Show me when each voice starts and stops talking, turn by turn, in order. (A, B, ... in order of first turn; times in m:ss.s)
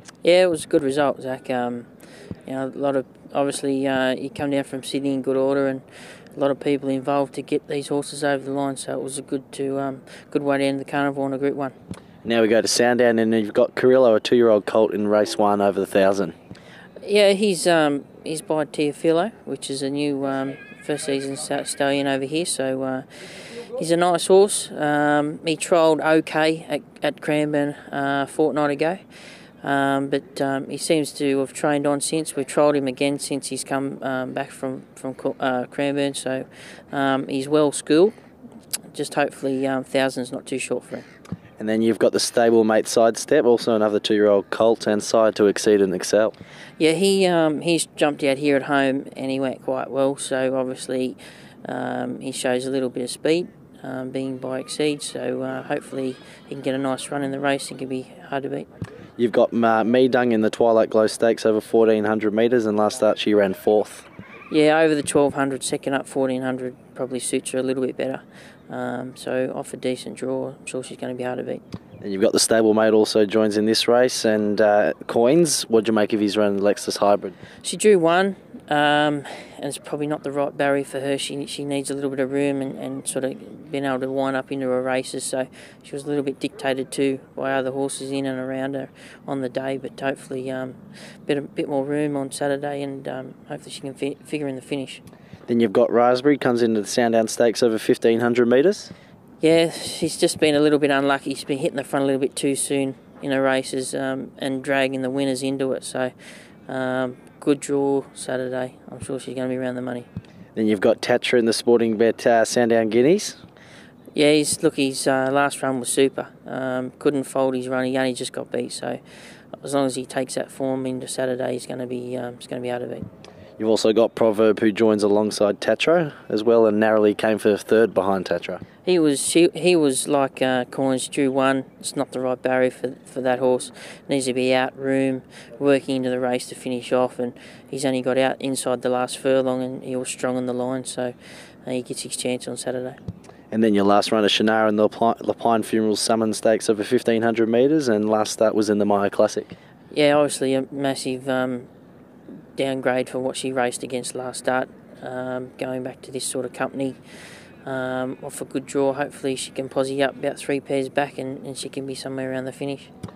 0:00.2-0:01.9 A
0:02.4-0:05.8 A
0:06.3-0:11.7 A
0:12.2-0:16.3 B
0:17.0-0:29.0 A
0:29.6-0:38.1 A
0:38.9-0:41.0 A
0:41.6-0:46.3 B
0:46.8-0:58.7 A
0:59.2-1:04.0 B
1:04.5-1:11.6 A
1:12.0-1:17.3 B
1:17.6-1:35.0 A
1:35.5-1:38.9 B
1:39.4-1:46.1 A
1:46.7-1:50.1 A
1:50.6-1:53.4 B
1:54.1-1:59.0 A
1:59.6-2:03.0 A
2:03.6-2:08.6 B
2:08.8-2:21.1 A
2:21.6-2:23.0 A
2:23.5-2:29.5 B
2:29.9-2:31.7 A
2:32.6-2:37.0 A
2:37.6-2:42.9 A